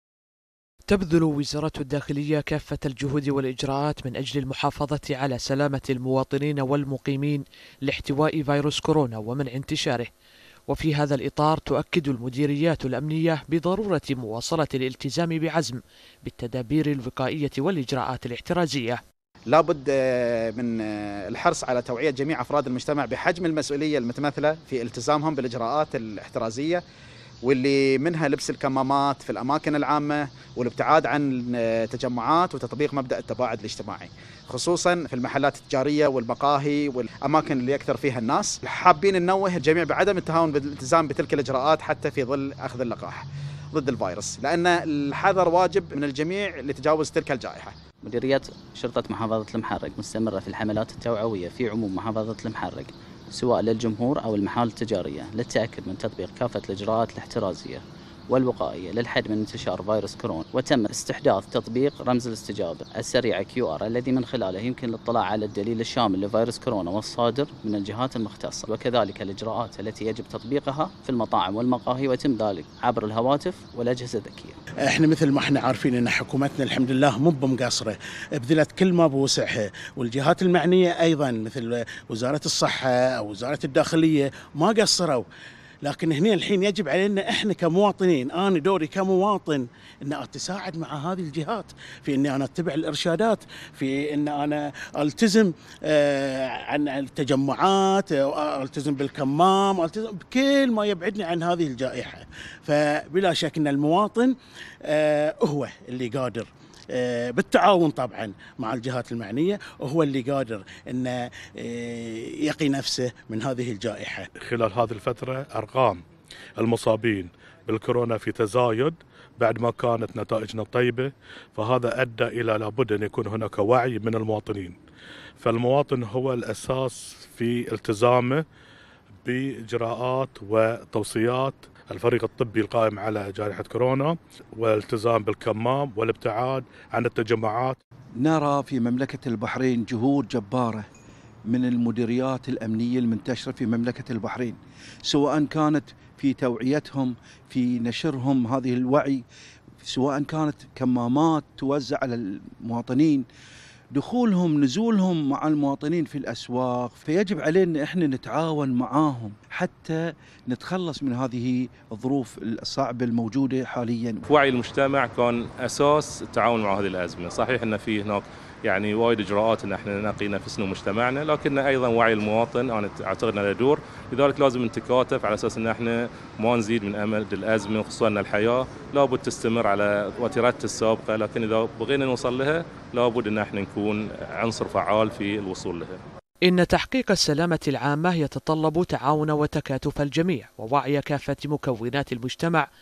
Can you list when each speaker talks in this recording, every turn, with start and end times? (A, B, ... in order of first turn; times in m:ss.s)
0:00.9-0:10.1 A
0:10.7-0:19.0 A
0:19.5-0:26.8 B
0:27.4-0:47.7 B
0:48.0-1:14.6 C
1:14.9-1:25.2 D
1:25.8-1:44.3 D
1:44.8-1:54.3 D
1:54.4-1:56.0 E
1:56.6-2:04.8 E
2:05.4-2:08.4 E
2:09.2-2:17.8 E
2:18.2-2:20.9 F
2:21.5-2:29.2 F
2:29.8-2:33.3 F
2:33.9-2:44.2 F
2:44.3-3:06.0 G
3:06.5-3:12.7 A